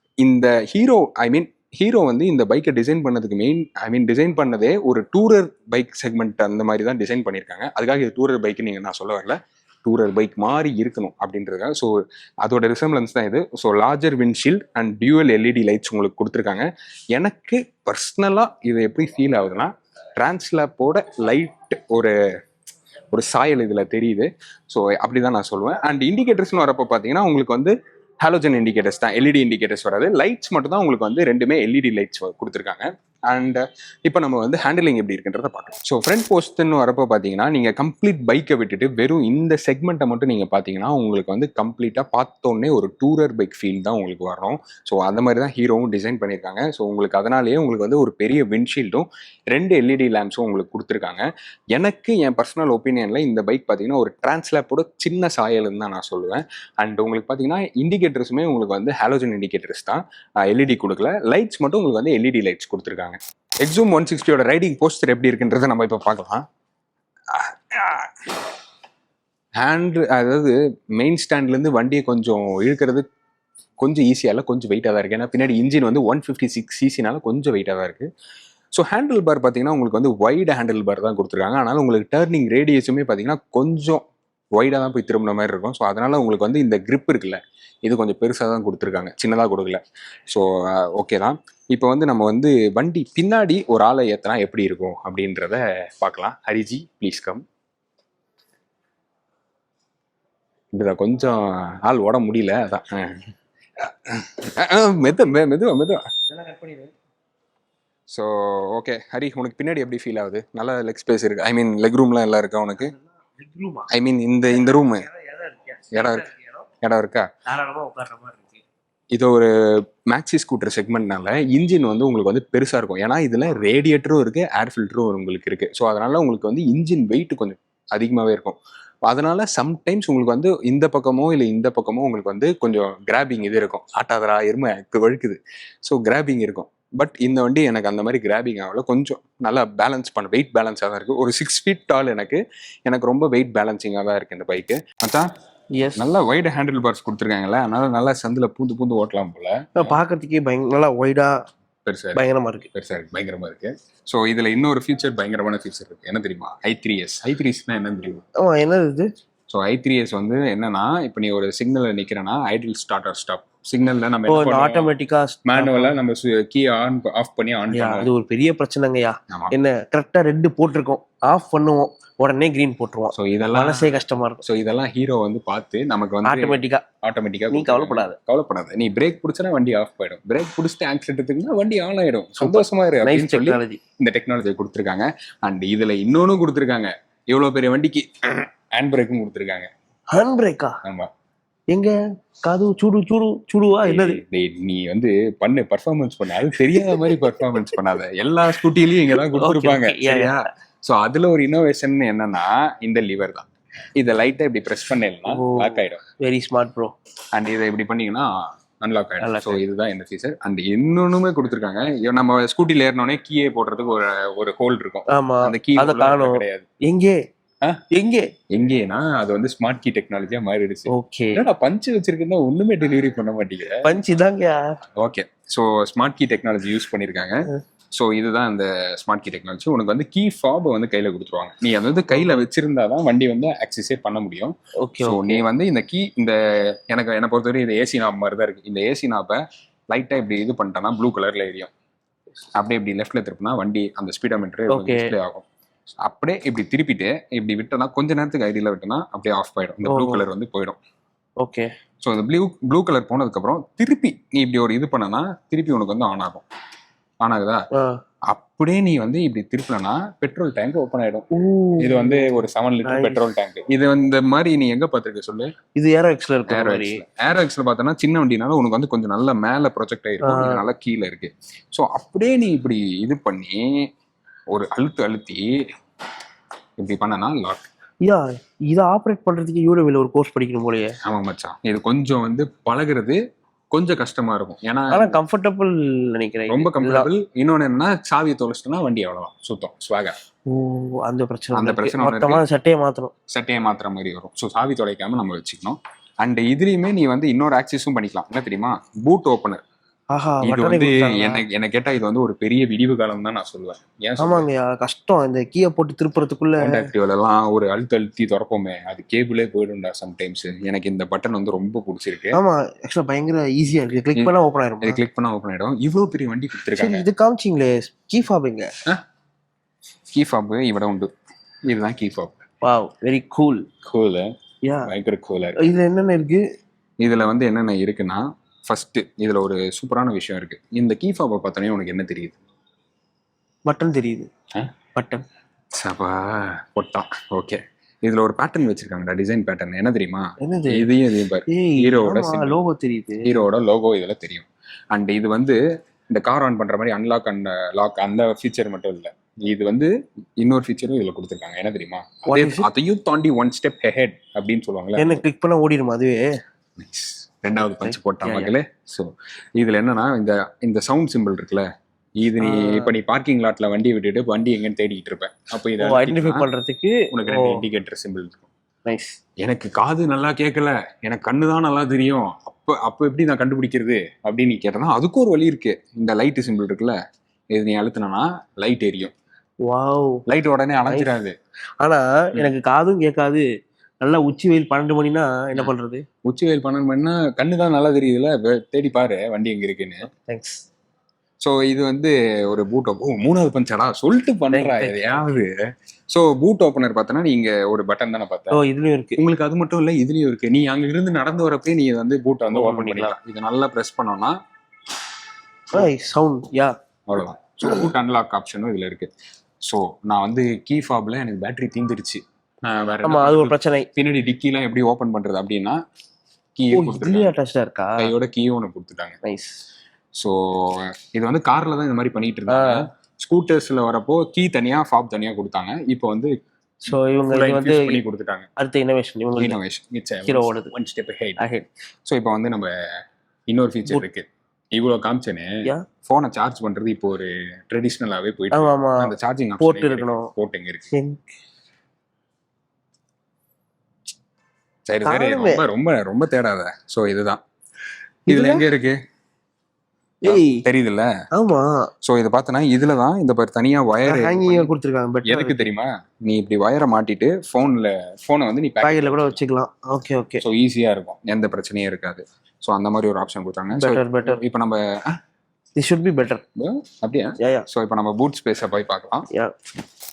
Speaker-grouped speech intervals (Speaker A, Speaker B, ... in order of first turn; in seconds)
Speaker A: 0.2-22.1, 23.1-66.5, 67.3-68.5, 69.6-73.0, 73.8-78.1, 78.7-97.4, 100.7-106.0, 108.1-112.9, 113.9-115.1, 115.9-116.3, 116.8-117.3, 119.1-145.3, 146.0-150.0, 151.8-158.2, 159.5-164.9, 165.5-168.1, 169.3-169.6, 173.1-189.7, 190.8-191.1, 193.8-206.0, 207.3-216.7, 218.5-224.0, 225.0-241.7, 242.6-245.5, 246.0-250.8, 252.0-256.4, 257.2-257.7, 258.3-261.3, 261.8-265.5, 266.5-273.6, 274.5-275.5, 276.8-277.7, 281.0-283.2, 283.7-285.2, 286.5-290.1, 291.5-292.4, 293.3-299.6, 300.4-304.5, 306.6-312.4, 314.2-317.1, 320.1-321.1, 321.7-322.4, 323.9-324.3, 324.9-325.8, 327.0-332.4, 335.8-342.6, 343.2-345.6, 346.1-355.2, 356.8-361.7, 362.2-366.4, 367.1-368.5, 369.4-377.0, 377.5-379.1, 380.3-381.4, 386.2-390.1, 391.4-395.6, 396.1-398.6, 399.2-404.4, 407.1-409.1, 409.7-415.8, 416.6-417.3, 418.0-419.2, 420.2-426.4, 426.9-428.5, 429.4-431.4, 432.1-432.7, 433.5-440.9, 444.9-447.4, 448.3-449.0, 450.3-451.1, 452.0-454.7, 455.3-459.4, 460.4-465.2, 466.6-469.3
Speaker B: 106.3-106.9, 112.9-113.9, 114.5-116.7, 117.5-118.6, 145.8-146.1, 149.8-151.3, 152.2-152.7, 158.4-159.1, 164.3-166.0, 167.7-174.4, 176.2-176.8, 177.5-178.2, 182.4-183.8, 190.1-190.8, 191.7-194.2, 196.8-197.4, 199.2-200.3, 205.3-206.9, 209.2-209.6, 215.1-217.2, 217.9-218.3, 220.9-221.4, 223.8-224.8, 232.1-232.4, 234.8-235.4, 244.7-245.1, 249.8-250.2, 251.4-251.7, 261.3-263.3, 265.8-267.0, 270.2-270.6, 278.1-281.0, 284.9-287.1, 290.5-293.1, 300.1-301.4, 304.2-306.9, 312.3-315.0, 316.8-318.7, 322.6-323.6, 324.6-324.9, 325.6-326.4, 333.7-334.3, 334.9-335.2, 340.4-340.9, 341.5-343.4, 352.3-352.7, 355.0-356.3, 357.7-358.5, 362.4-362.9, 365.8-367.6, 368.9-369.2, 379.7-380.2, 380.9-381.1, 381.8-383.4, 384.0-386.1, 390.1-390.6, 394.5-395.3, 398.5-399.2, 402.5-403.1, 405.7-406.7, 413.0-413.9, 416.7-418.1, 419.2-419.6, 422.5-422.9, 426.9-428.0, 428.6-429.6, 430.3-430.7, 431.4-431.7, 438.5-440.3, 440.9-441.2, 445.1-445.6, 448.3-448.7, 450.2-450.6, 451.3-451.9, 454.1-455.6, 458.8-460.4, 463.8-464.4, 465.8-466.4, 467.4-467.7